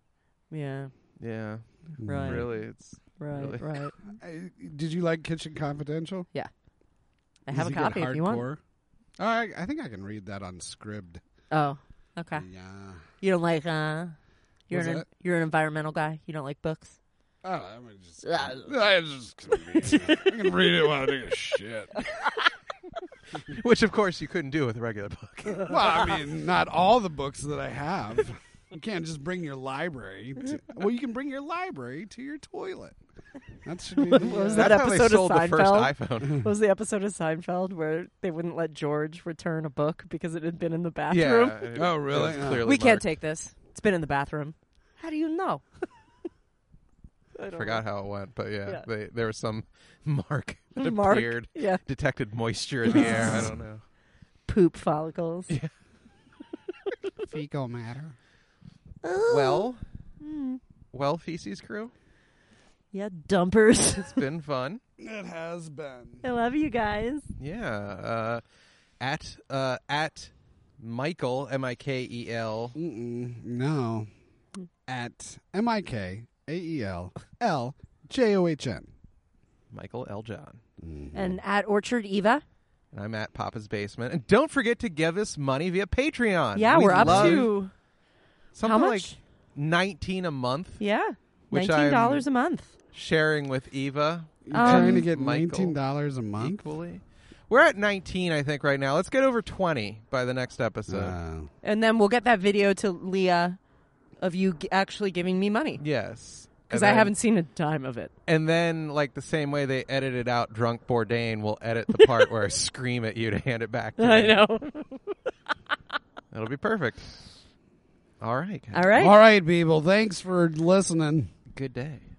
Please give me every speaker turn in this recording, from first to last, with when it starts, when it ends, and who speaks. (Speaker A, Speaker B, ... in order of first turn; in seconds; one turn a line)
Speaker A: 0.5-0.9
Speaker B: 1.2-3.7
Speaker C: 2.0-2.5
Speaker A: 2.0-2.6
Speaker A: 3.2-3.9
Speaker C: 4.1-6.3
Speaker A: 7.5-8.4
Speaker C: 7.5-8.6
Speaker C: 9.2-11.2
Speaker A: 11.5-12.5
Speaker C: 12.3-13.0
Speaker A: 13.2-14.2
Speaker A: 14.7-16.9
Speaker C: 14.7-15.1
Speaker C: 17.4-22.1
Speaker A: 18.2-18.7
Speaker A: 19.8-20.3
Speaker A: 22.0-22.4
Speaker B: 23.5-25.8
Speaker C: 25.6-33.0
Speaker C: 33.6-34.8
Speaker A: 34.0-41.6
Speaker B: 34.5-36.5
Speaker B: 41.1-43.0
Speaker C: 41.7-42.6
Speaker A: 42.6-45.6
Speaker A: 47.4-47.8
Speaker B: 47.5-53.8
Speaker A: 50.8-51.8
Speaker A: 52.9-53.5
Speaker A: 54.5-55.5
Speaker C: 57.2-58.1
Speaker A: 59.0-60.6
Speaker B: 59.3-59.8
Speaker B: 60.9-61.9
Speaker A: 62.9-64.2
Speaker B: 64.0-64.8
Speaker C: 65.0-66.2
Speaker A: 66.2-67.3
Speaker B: 67.4-68.4
Speaker B: 69.0-72.8
Speaker C: 72.7-74.1
Speaker C: 74.9-78.9
Speaker B: 79.7-80.6
Speaker C: 80.8-81.4
Speaker A: 81.1-82.4
Speaker B: 82.9-87.5
Speaker A: 86.5-87.7
Speaker C: 86.7-87.5
Speaker B: 88.5-90.8
Speaker A: 88.6-89.2
Speaker A: 90.8-92.7
Speaker B: 91.5-92.2
Speaker B: 92.9-95.8
Speaker C: 94.4-96.6
Speaker A: 94.5-95.0
Speaker B: 96.3-101.2
Speaker C: 100.9-101.5
Speaker A: 101.6-103.6
Speaker A: 104.2-105.8
Speaker B: 105.8-107.1
Speaker A: 106.7-108.1
Speaker B: 108.2-114.3
Speaker A: 111.9-112.2
Speaker A: 114.0-115.1
Speaker B: 116.3-117.2
Speaker B: 118.2-118.9
Speaker A: 118.7-119.2
Speaker C: 118.9-121.3
Speaker B: 121.5-122.0